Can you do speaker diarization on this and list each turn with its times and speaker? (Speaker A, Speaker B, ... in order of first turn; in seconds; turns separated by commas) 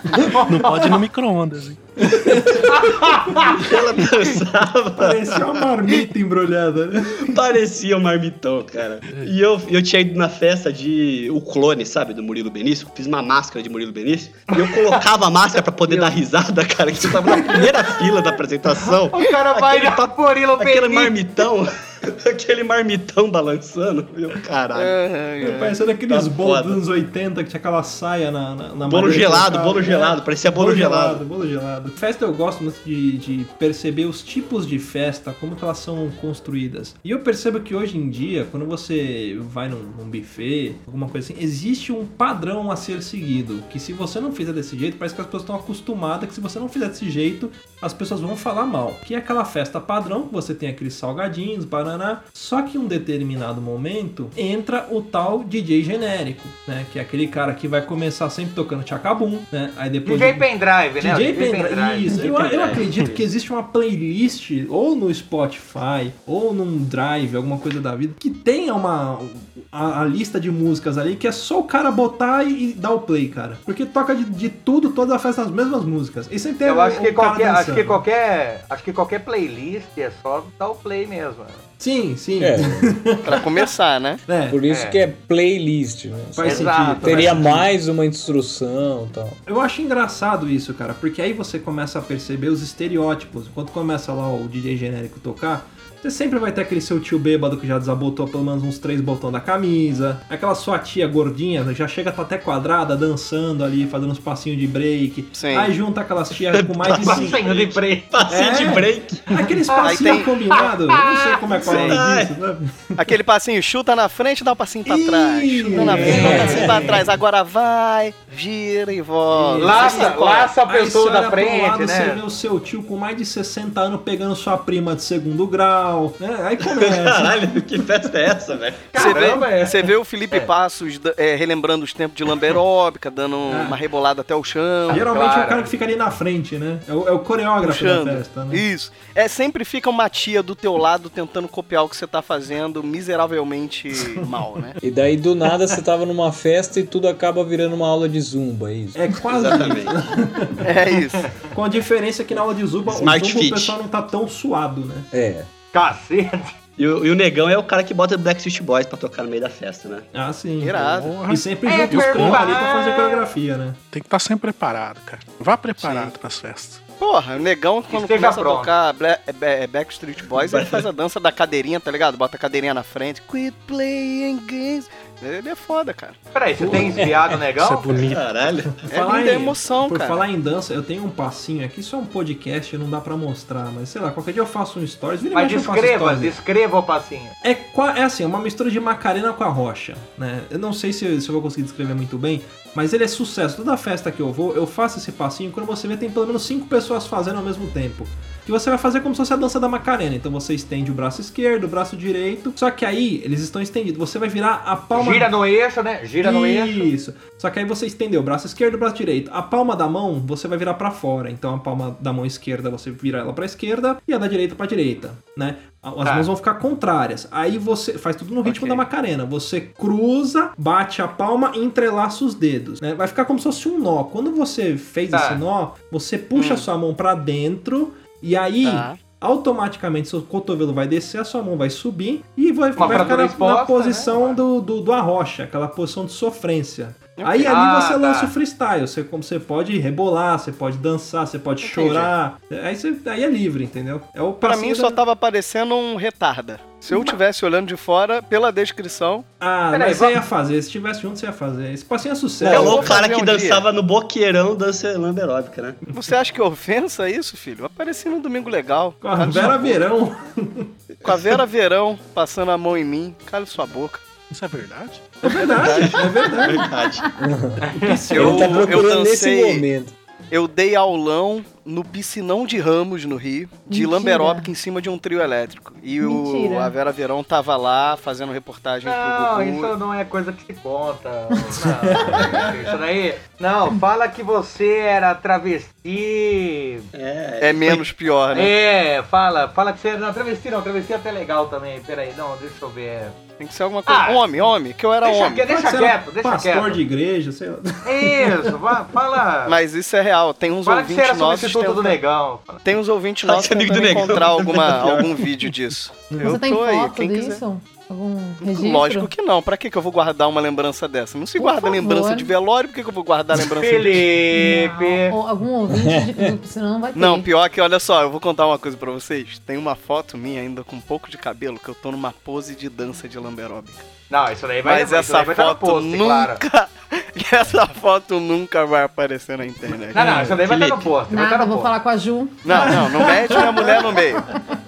Speaker A: 0.3-0.6, Speaker B: 0.3-1.9, Speaker C: 0.6-0.9, Speaker C: 2.0-3.6, Speaker A: 2.7-3.6, Speaker D: 3.5-5.7, Speaker C: 5.0-7.4, Speaker D: 7.2-26.8, Speaker A: 14.5-15.0, Speaker C: 17.2-17.9, Speaker A: 19.1-21.2, Speaker E: 24.7-25.8, Speaker C: 25.4-60.5, Speaker D: 28.9-31.2, Speaker A: 60.1-62.2, Speaker C: 61.0-78.0, Speaker D: 62.1-63.2, Speaker A: 76.7-81.6, Speaker C: 81.8-83.4, Speaker F: 82.4-82.9, Speaker E: 83.2-84.2, Speaker C: 84.3-84.6, Speaker F: 84.5-89.4, Speaker A: 84.7-85.0, Speaker C: 86.3-87.7, Speaker A: 86.4-87.6, Speaker C: 89.5-107.4, Speaker E: 105.3-105.7, Speaker D: 106.4-109.3, Speaker A: 106.9-108.2, Speaker C: 108.3-113.1, Speaker A: 109.7-111.7, Speaker E: 109.8-110.3, Speaker D: 111.6-112.3, Speaker E: 111.7-112.0, Speaker E: 113.0-120.5, Speaker C: 114.9-117.2, Speaker A: 115.7-116.8, Speaker F: 116.0-117.0, Speaker C: 119.4-120.0, Speaker A: 119.5-122.2, Speaker C: 120.7-127.8, Speaker D: 126.7-129.3, Speaker A: 128.9-130.5, Speaker E: 128.9-135.1, Speaker C: 133.5-133.8, Speaker A: 134.9-135.7, Speaker C: 134.9-138.6, Speaker E: 137.6-144.8, Speaker F: 144.8-149.1, Speaker C: 148.9-150.7, Speaker D: 149.3-149.9, Speaker E: 150.6-151.3, Speaker C: 151.5-155.1, Speaker D: 152.9-153.8, Speaker F: 155.1-155.5, Speaker A: 155.7-156.5, Speaker D: 156.8-160.1, Speaker C: 160.1-163.8, Speaker E: 160.6-161.2, Speaker B: 160.9-162.5, Speaker A: 161.7-163.3, Speaker B: 163.9-166.8, Speaker E: 165.8-166.1, Speaker E: 167.0-176.2, Speaker A: 167.9-168.7, Speaker D: 170.4-170.9, Speaker A: 176.3-178.0, Speaker C: 176.6-177.2, Speaker B: 177.5-178.6, Speaker D: 178.0-178.7, Speaker C: 178.8-186.3, Speaker E: 178.9-180.2, Speaker A: 185.3-187.3, Speaker C: 187.4-205.3, Speaker A: 204.9-206.9, Speaker C: 206.2-245.0, Speaker A: 216.0-216.3, Speaker E: 218.4-218.8, Speaker A: 225.1-225.4, Speaker E: 226.3-226.7, Speaker E: 228.6-229.0, Speaker A: 232.8-234.4, Speaker E: 232.8-233.1, Speaker E: 237.2-237.6, Speaker A: 237.5-238.3, Speaker E: 241.7-242.1, Speaker E: 244.4-249.3, Speaker C: 246.9-247.2, Speaker C: 249.4-252.9, Speaker A: 249.7-250.2, Speaker E: 252.4-253.7, Speaker D: 252.4-255.8, Speaker E: 255.9-259.8, Speaker C: 259.0-260.7, Speaker E: 261.0-264.0, Speaker B: 264.3-265.2, Speaker C: 265.2-266.7, Speaker E: 265.6-265.9, Speaker D: 265.7-267.1, Speaker G: 266.2-267.1, Speaker F: 267.2-267.6, Speaker A: 267.6-268.4, Speaker C: 267.8-268.8, Speaker E: 268.2-269.6, Speaker F: 268.2-269.9, Speaker E: 270.3-279.7, Speaker G: 273.7-274.5, Speaker G: 276.0-276.7, Speaker A: 278.9-286.9, Speaker C: 281.6-282.7, Speaker D: 286.9-287.9, Speaker E: 287.4-288.5, Speaker A: 288.3-293.2, Speaker E: 293.4-295.4, Speaker A: 293.9-294.2, Speaker A: 295.0-296.8, Speaker C: 295.5-298.6, Speaker A: 297.9-299.6, Speaker E: 299.5-302.0, Speaker A: 300.7-302.6, Speaker E: 302.6-307.4, Speaker D: 303.2-305.3, Speaker C: 306.1-306.4, Speaker G: 306.2-309.1, Speaker E: 308.4-314.0, Speaker G: 311.4-312.3, Speaker A: 313.5-315.2, Speaker G: 314.3-317.3, Speaker F: 315.7-316.4, Speaker E: 316.9-323.9, Speaker A: 324.1-326.4, Speaker E: 324.6-330.0, Speaker A: 329.9-331.7, Speaker C: 330.0-330.4, Speaker D: 330.4-330.9, Speaker G: 331.1-333.5, Speaker E: 332.4-334.3